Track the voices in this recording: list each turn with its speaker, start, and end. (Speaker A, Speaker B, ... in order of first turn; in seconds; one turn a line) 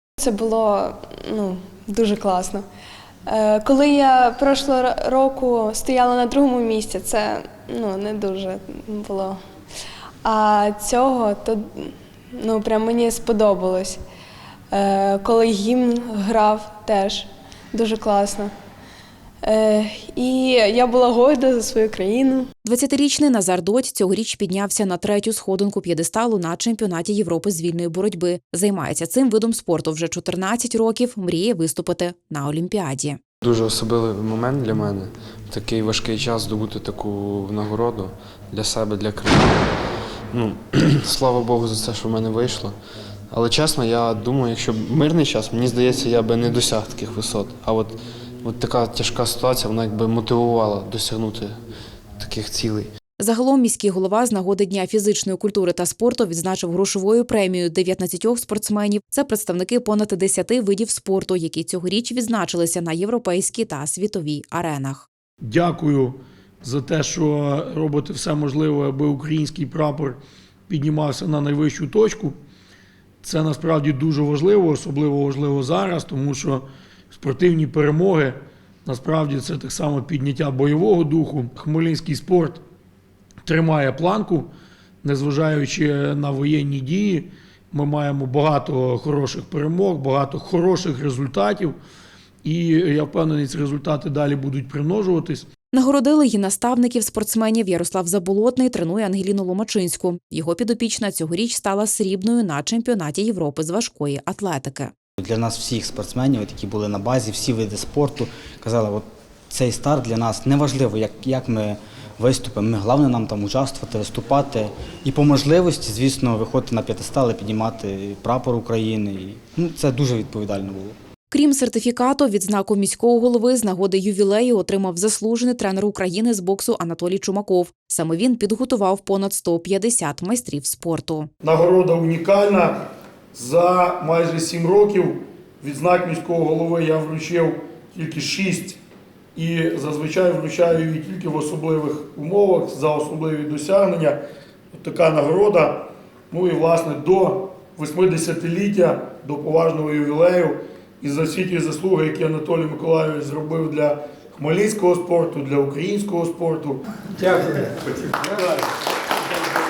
Speaker A: 0.2-2.6
Speaker A: 3.3-9.4
Speaker A: 10.2-14.0
Speaker A: 14.7-18.5
Speaker A: 19.4-22.5
Speaker B: 22.6-33.2
Speaker C: 33.4-39.8
Speaker C: 40.3-42.8
Speaker C: 43.3-51.6
Speaker C: 52.2-52.9
Speaker B: 53.2-65.1
Speaker D: 65.4-72.3
Speaker D: 73.2-82.6
Speaker D: 83.5-84.5
Speaker D: 85.0-91.7
Speaker D: 92.4-95.5
Speaker B: 95.7-104.9
Speaker E: 105.2-121.0
Speaker B: 121.3-131.3
Speaker D: 131.4-132.8
Speaker D: 133.3-138.8
Speaker D: 139.3-144.2
Speaker D: 144.7-158.7